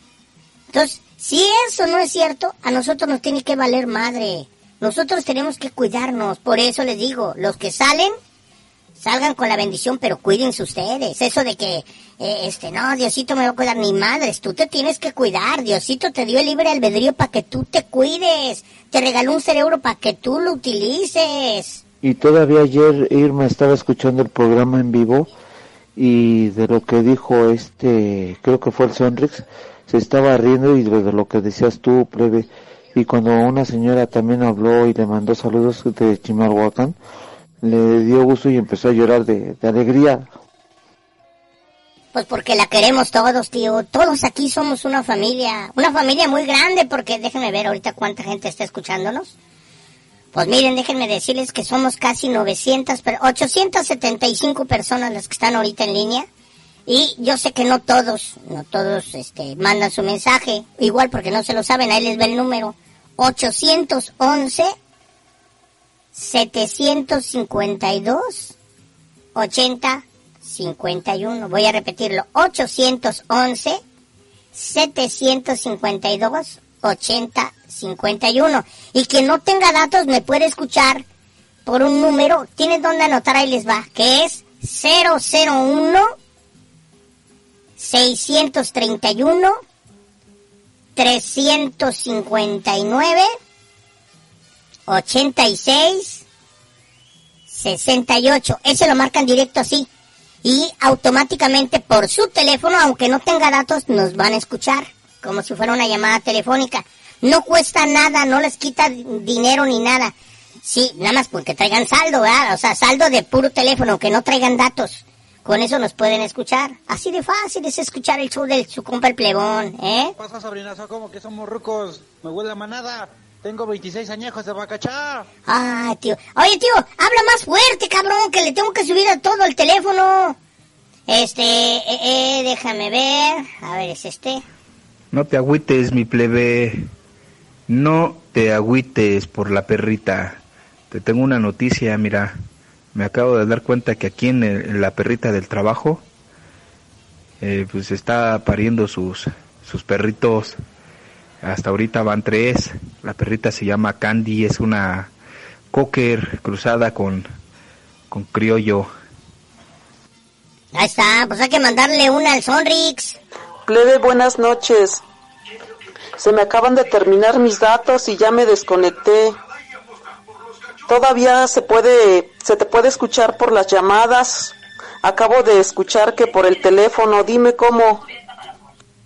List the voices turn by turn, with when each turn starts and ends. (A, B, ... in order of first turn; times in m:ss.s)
0:00.7-0:08.1 A
0:09.0-0:21.8 A
0:22.0-0:25.3 B
0:26.0-0:37.0 B
0:37.6-0:40.3 B
0:42.1-0:49.3 A
0:50.3-0:56.2 A
0:56.9-1:04.7 A
1:06.1-1:08.5 A
1:09.3-1:13.8 A
1:14.5-1:21.0 A
1:21.6-1:26.1 A
1:27.8-1:29.5 A
1:31.0-1:33.3 A
1:34.9-1:36.2 A
1:37.5-1:39.9 A
1:40.4-2:00.1 A
2:00.2-2:05.3 C
2:05.4-2:10.4 A
2:11.1-2:14.4 A
2:15.1-2:16.9 D
2:17.7-2:22.4 D
2:22.9-2:26.0 D
2:27.4-2:30.6 D
2:31.4-2:35.1 D
2:35.7-2:37.3 D
2:38.1-2:38.9 D
2:40.7-2:43.2 A
2:43.7-2:45.0 E
2:46.2-2:49.4 E
2:50.9-2:58.0 E